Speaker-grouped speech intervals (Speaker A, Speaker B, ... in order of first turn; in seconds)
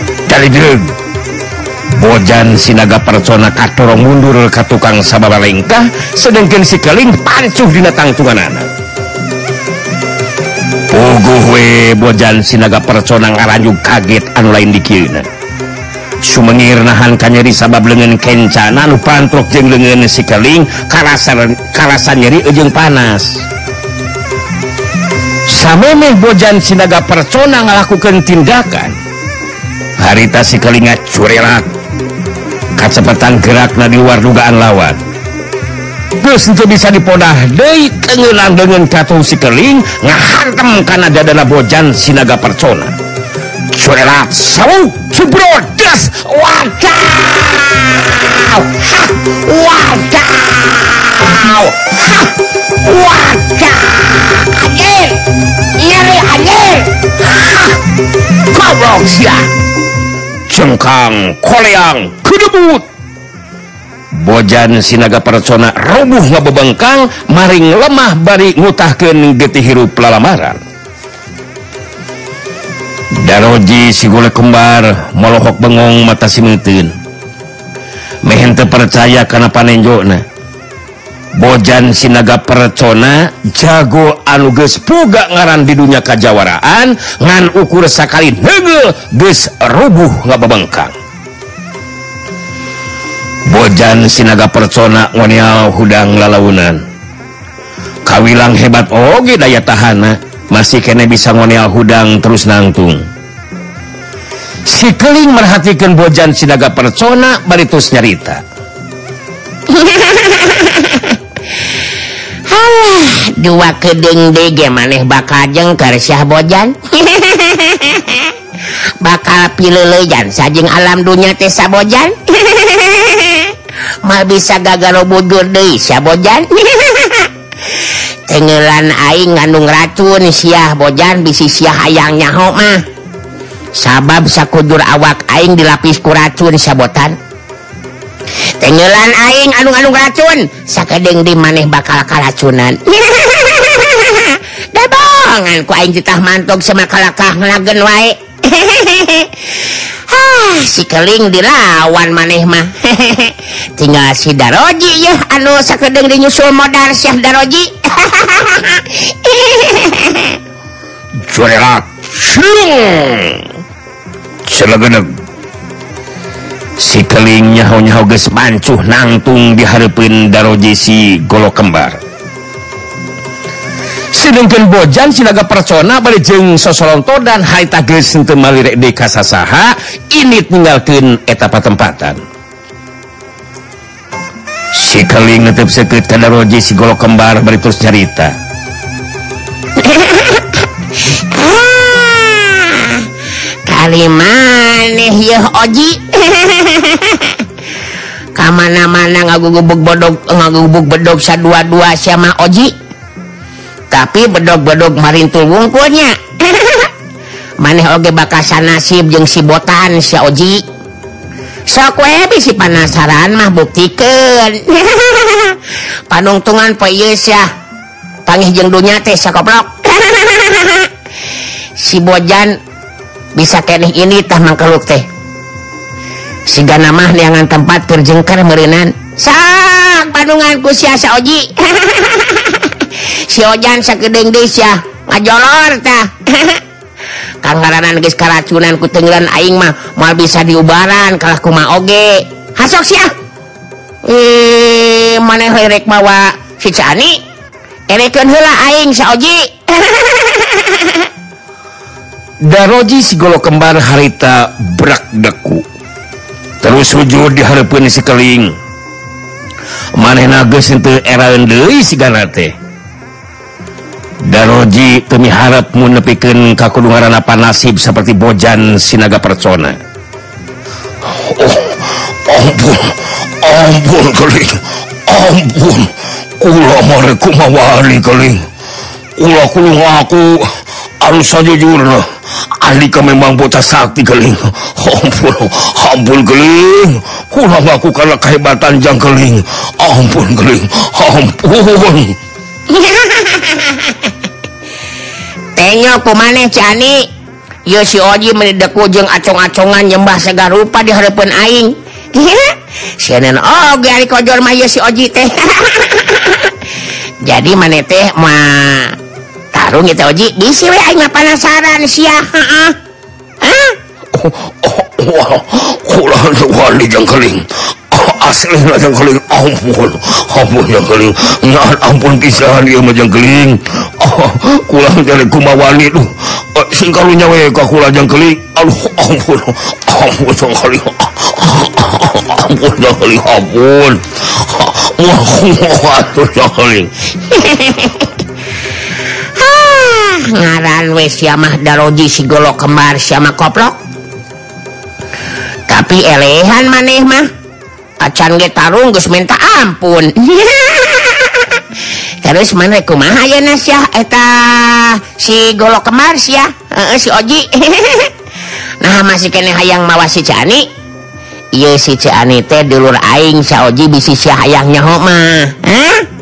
Speaker A: 0.3-0.9, 1.9-8.7, 10.9-15.3, 16.2-23.5, 25.5-29.0, 30.0-31.7, 32.8-35.0, 36.2-43.0, 43.7-50.5, 51.3-51.6, 52.9-53.9, 60.5-62.9, 64.1-70.6, 73.2-77.0, 78.2-80.2, 81.3-91.0, 93.5-96.8, 98.0-103.1, 104.7-108.4, 161.3-163.5, 164.5-165.1, 166.8-172.0, 174.1-182.2, 184.7-188.3, 252.4-255.7, 256.6-258.6, 260.0-262.6, 264.2-269.8, 271.1-278.5, 279.2-292.2, 314.1-337.1
Speaker B: 50.1-52.3, 52.8-55.2, 55.8-57.7, 58.5-59.5, 109.7-111.2, 112.5-118.3, 119.0-127.3, 128.3-132.8, 133.8-137.2, 138.6-160.4, 189.8-193.1, 193.7-197.4, 198.3-202.7, 203.9-206.9, 207.6-210.7, 211.7-215.6, 216.1-217.5, 218.3-220.9, 221.8-222.6, 223.3-225.1, 226.5-236.6, 237.4-243.1, 244.0-247.2, 247.9-251.1, 292.7-294.1, 295.6-297.1, 297.7-306.5, 307.2-309.0, 309.5-312.8, 313.4-313.8, 337.2-338.2, 339.4-343.8, 345.7-347.3, 348.0-351.6, 352.2-358.1, 358.8-360.7, 361.5-366.1